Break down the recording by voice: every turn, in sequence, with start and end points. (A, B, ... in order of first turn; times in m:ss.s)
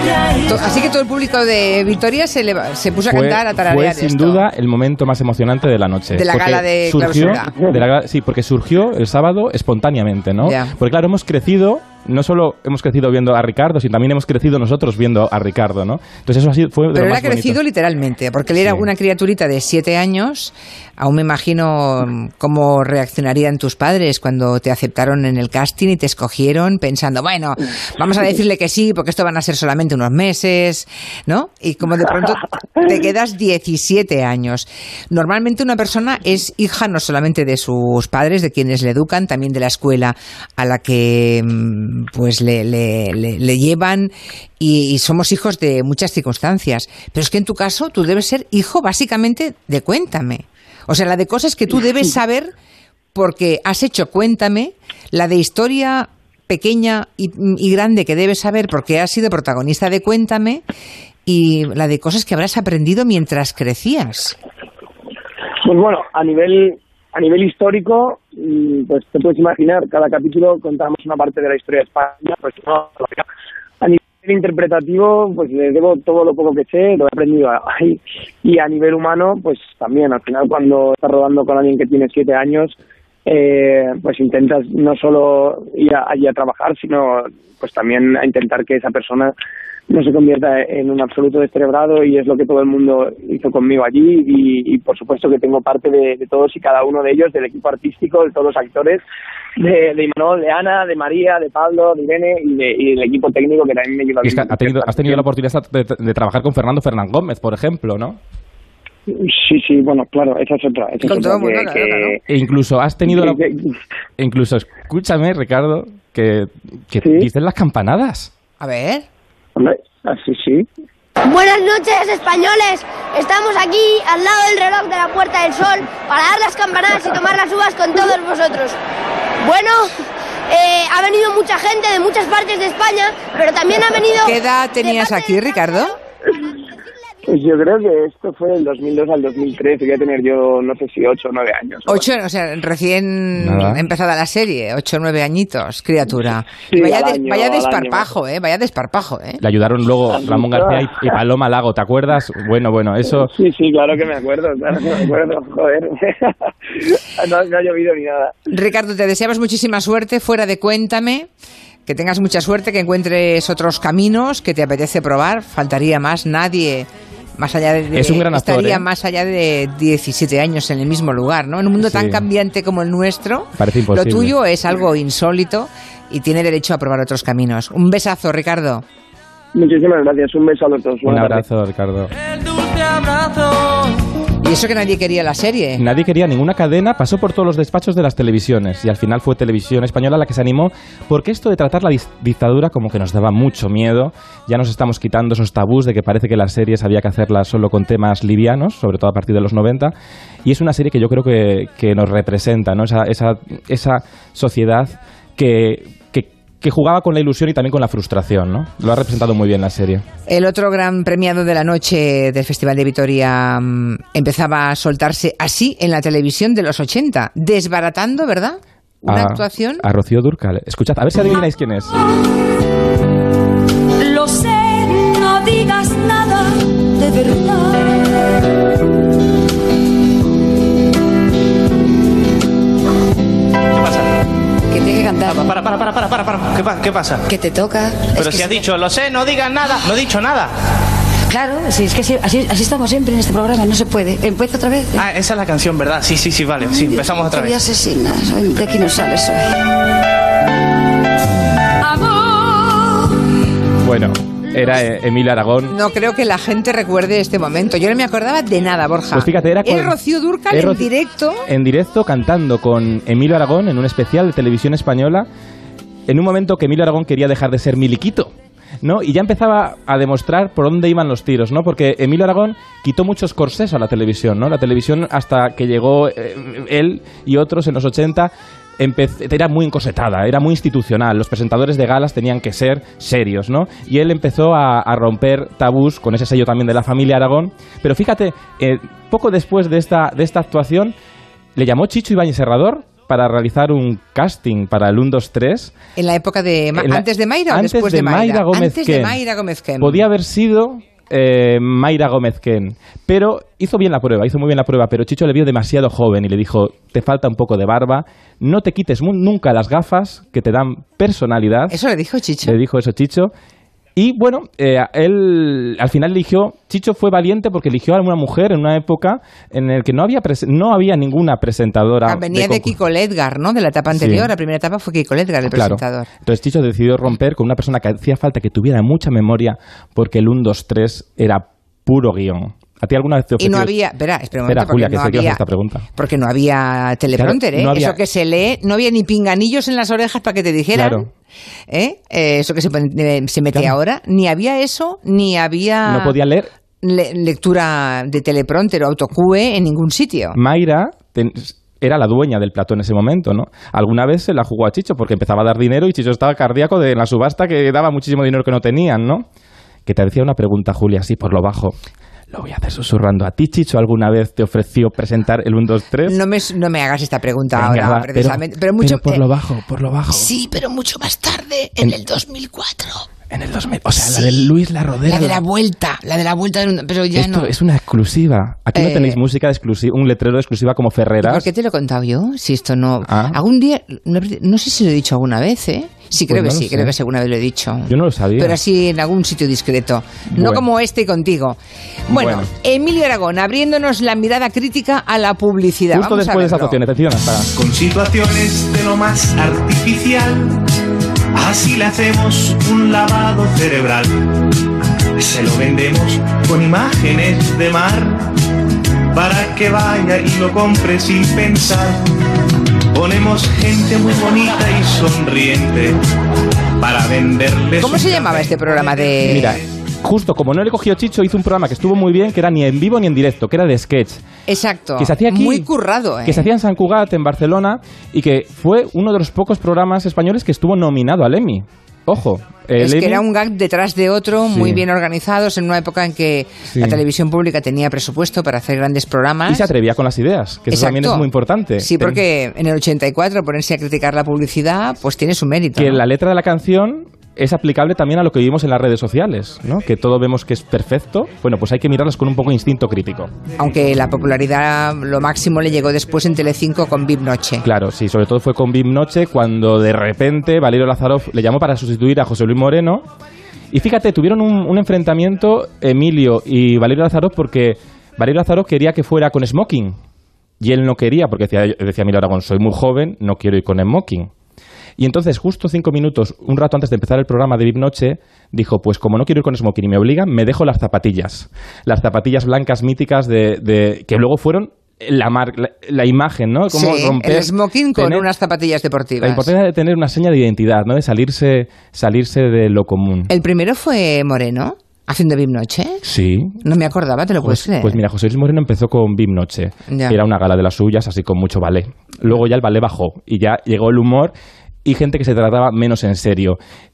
0:00.4-0:04.5 A
0:03.1-0:17.6 B
0:06.1-0:07.6 A
0:10.4-0:10.7 A
0:16.9-0:52.5 A
0:18.6-0:18.9 B
0:53.2-1:00.6 A
1:01.3-1:04.4 A
1:05.6-1:13.3 C
1:13.8-1:29.3 C
1:29.9-1:39.0 C
1:39.6-1:45.2 C
1:44.2-1:48.2 B
1:49.1-1:52.2 C
1:51.0-1:52.2 A
1:52.3-1:53.4 B
1:53.1-1:53.8 C
1:54.2-1:58.3 B
1:57.0-1:57.3 C
1:58.6-1:59.1 A
1:59.6-2:00.7 C
2:01.2-2:08.8 D
2:09.4-2:10.0 D
2:10.5-2:15.2 D
2:14.2-2:16.0 A
2:17.3-2:22.0 C
2:21.9-2:29.4 A
2:23.4-2:23.9 B
2:26.7-2:28.1 C
2:29.4-2:33.3 B
2:30.2-2:31.0 C
2:33.1-2:38.4 C
2:38.5-2:41.3 A
2:41.9-2:58.8 A
2:47.9-2:48.9 B
2:51.8-2:52.2 B
2:53.6-2:54.4 B
2:59.5-3:01.4 C
3:01.0-3:02.1 B
3:04.4-3:05.8 A
3:05.8-3:19.9 B
3:20.4-3:30.0 B
3:30.3-3:39.8 A
3:39.1-3:42.0 B
3:44.0-3:46.4 E
3:47.0-3:47.5 F
3:53.7-3:54.1 G
3:54.7-3:55.5 F
3:55.3-3:57.2 G
3:57.3-3:58.7 F
3:58.2-4:00.5 G
4:01.3-4:05.0 F
4:05.0-4:07.6 G
4:06.7-4:09.5 F
4:12.0-4:12.7 E
4:13.8-4:15.8 B
4:15.7-4:21.4 A
4:19.1-4:20.0 B
4:20.5-4:20.9 B
4:21.5-4:25.3 B
4:26.1-4:51.0 B
4:51.6-4:55.7 B
4:56.0-5:00.0 A
4:56.7-4:59.2 B
4:59.8-5:11.8 B
5:11.7-5:12.6 A
5:12.4-5:13.3 B
5:14.0-5:22.8 B
5:22.1-5:26.1 A
5:23.9-5:24.3 B
5:25.5-5:33.7 B
5:33.4-5:35.4 A
5:34.4-5:35.9 B
5:35.9-5:41.1 A
5:37.2-5:38.0 B
5:40.7-5:41.1 B
5:41.7-5:46.2 A
5:45.8-5:46.5 B
5:46.8-5:50.4 A
5:50.3-5:59.3 B
5:59.9-6:01.8 B
6:02.3-6:06.2 B
6:06.1-6:09.2 A
6:07.5-6:10.3 B
6:10.1-6:13.1 A
6:13.3-6:15.4 B
6:14.0-6:14.5 A
6:15.1-6:17.5 A
6:17.2-6:21.5 B
6:18.8-6:19.2 A
6:21.2-6:36.8 A
6:23.1-6:23.4 B
6:26.3-6:26.9 B
6:27.9-6:28.6 B
6:30.3-6:30.6 B
6:32.1-6:32.5 B
6:35.9-6:37.5 B
6:37.6-6:40.6 H
6:41.3-6:44.3 H
6:45.2-6:48.4 H
6:49.1-6:52.1 H
6:52.9-6:56.0 H
6:56.8-6:59.7 H
6:57.8-6:59.6 A
6:59.2-7:04.2 B
7:04.5-7:06.5 A
7:05.0-7:05.7 B
7:06.2-7:13.2 B
7:12.8-7:19.7 A
7:14.5-7:14.8 B
7:16.7-7:17.0 B
7:19.5-7:22.2 B
7:20.7-7:21.3 A
7:21.8-7:26.0 A
7:25.8-7:33.3 B
7:33.6-7:37.6 A
7:37.6-7:43.1 B
7:43.7-7:50.0 B
7:50.6-7:54.3 B
7:55.0-8:08.3 B
8:06.7-8:09.5 A
8:09.2-8:13.3 B
8:13.3-8:16.0 A
8:16.0-8:16.6 B
8:16.6-8:18.0 A
8:17.4-8:24.3 B
8:19.9-8:20.2 A
8:24.8-8:26.6 B